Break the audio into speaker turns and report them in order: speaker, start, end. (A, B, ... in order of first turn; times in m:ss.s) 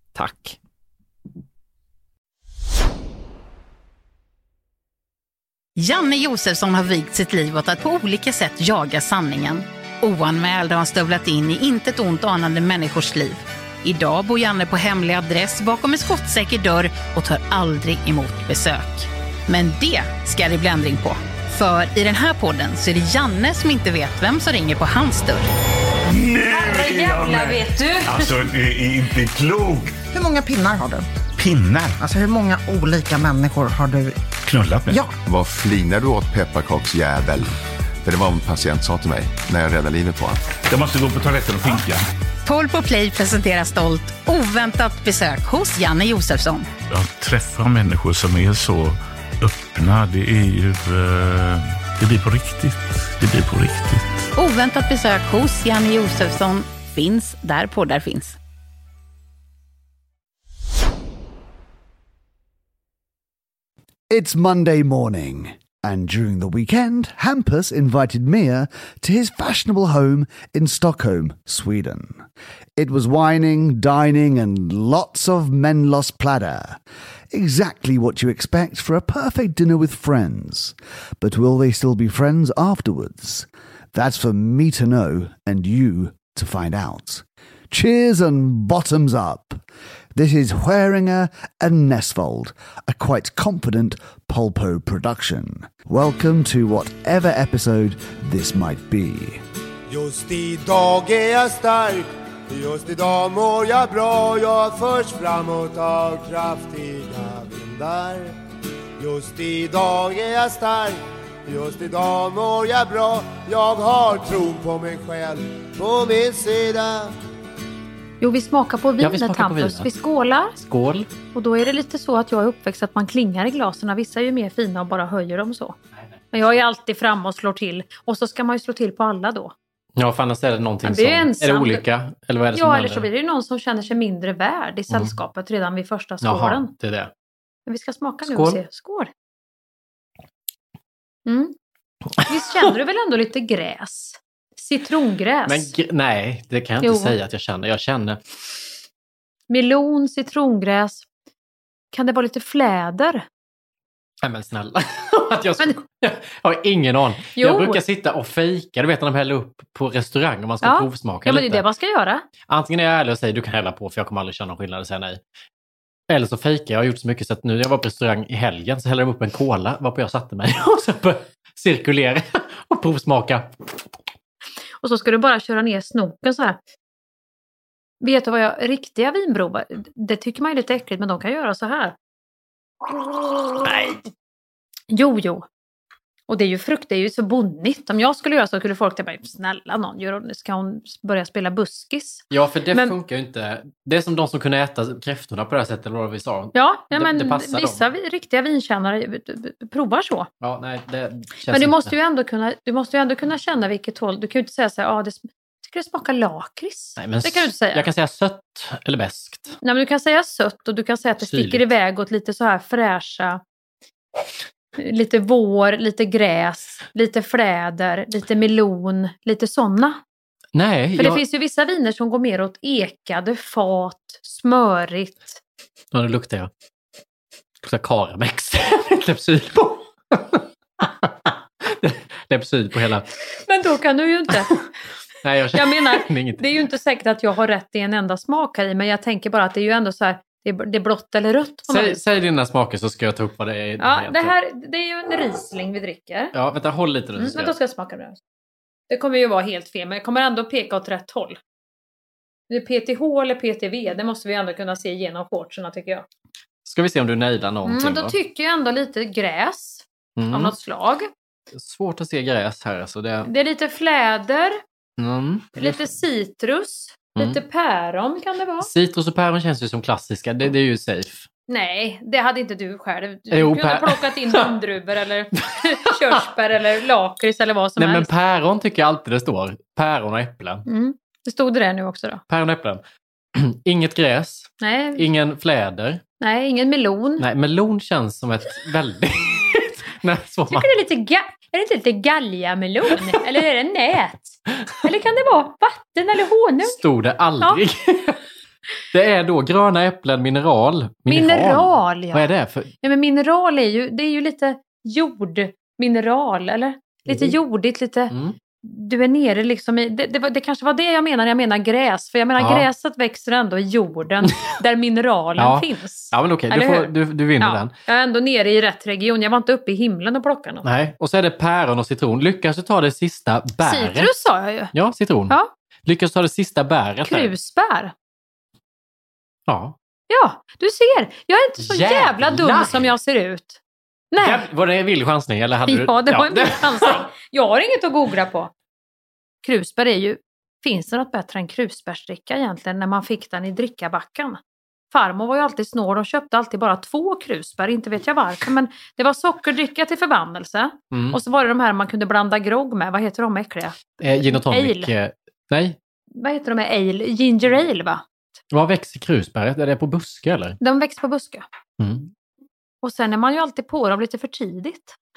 0:00.1-0:00.6 A
0:05.8-0:25.5 B
0:26.2-0:27.5 C
0:26.4-0:28.4 D
0:28.2-0:29.9 C
0:30.1-0:34.2 E
0:34.5-0:34.8 C
0:34.6-0:34.9 F
0:34.8-0:35.1 E
0:35.2-0:37.5 G
0:38.0-0:40.6 G
0:40.7-0:42.0 C
0:42.4-0:46.7 B
0:46.9-0:54.0 F
0:54.4-0:58.4 B
1:04.1-1:16.8 H
1:17.3-1:29.6 H
1:30.1-1:39.4 H
1:39.9-1:48.3 I
1:49.0-1:57.1 I
1:58.2-2:00.6 D
1:59.0-1:59.9 A
2:00.6-2:01.1 A
2:01.3-2:05.8 D
2:06.3-2:09.5 D
2:10.0-2:13.0 A
2:10.8-2:11.8 D
2:12.5-2:16.7 D
2:16.2-2:17.1 A
2:17.6-2:19.1 D
2:18.2-2:18.6 A
2:21.2-2:21.5 D
2:22.2-2:25.7 D
2:25.5-2:28.2 A
2:26.8-2:27.1 D
2:29.5-2:31.0 D
2:31.9-2:33.2 D
2:34.2-2:41.6 A
2:37.4-2:37.8 D
2:40.6-2:42.2 D
2:42.5-2:45.2 A
2:46.1-2:53.5 A
2:54.8-2:56.6 D
2:58.0-3:01.9 D
3:03.0-3:03.7 D
3:03.6-3:04.0 A
3:04.9-3:05.4 D
3:06.3-3:12.9 D
3:12.3-3:17.8 A
3:16.5-3:20.3 D
3:20.4-3:21.9 A
3:21.5-3:27.8 D
3:27.0-3:29.6 A
3:29.6-3:33.4 D
3:31.2-3:31.6 A
3:34.8-3:40.0 D
3:40.5-3:41.2 A
3:41.0-3:45.4 D
3:45.9-3:46.5 A
3:47.6-3:53.1 A
3:53.4-3:54.5 D
3:55.2-3:56.4 A
3:55.6-4:02.0 D
4:01.7-4:04.3 A
4:03.8-4:06.3 D
4:06.3-4:07.5 A
4:07.2-4:08.2 D
4:08.9-4:11.4 D
4:12.5-4:16.0 D
4:16.6-4:18.1 A
4:17.6-4:21.1 D
4:20.2-4:20.5 A
4:21.5-4:23.3 A
4:23.2-4:24.6 D
4:25.0-4:25.8 A
4:25.6-4:28.7 D
4:28.6-4:31.3 A
4:31.5-4:38.1 D
4:33.3-4:34.5 A
4:35.4-4:36.2 A
4:37.8-4:40.6 A
4:40.7-4:42.2 D
4:42.3-4:42.8 A
4:43.3-4:46.0 A
4:44.6-4:45.0 D
4:46.2-4:47.2 D
4:47.2-4:50.7 A
4:50.5-4:56.8 D
4:56.6-4:58.2 A
4:58.9-5:02.7 A
5:01.1-5:02.2 D
5:02.8-5:20.7 D
5:07.1-5:07.3 A
5:08.1-5:08.4 A
5:12.4-5:12.7 A
5:15.4-5:17.7 A
5:20.6-5:24.2 A
5:23.6-5:24.7 D
5:24.7-5:27.3 A
5:27.0-5:27.9 D
5:29.5-5:29.7 A
5:30.1-5:33.6 D
5:31.6-5:32.9 A
5:34.1-5:34.4 D
5:34.2-5:37.0 A
5:35.7-5:38.5 D
5:39.4-5:44.4 D
5:44.9-5:54.9 D
5:50.9-5:51.2 A
5:54.0-5:55.8 A
5:56.1-5:58.0 D
5:58.5-6:00.6 A
6:00.6-6:01.4 D
6:01.8-6:02.1 A
6:02.8-6:05.0 D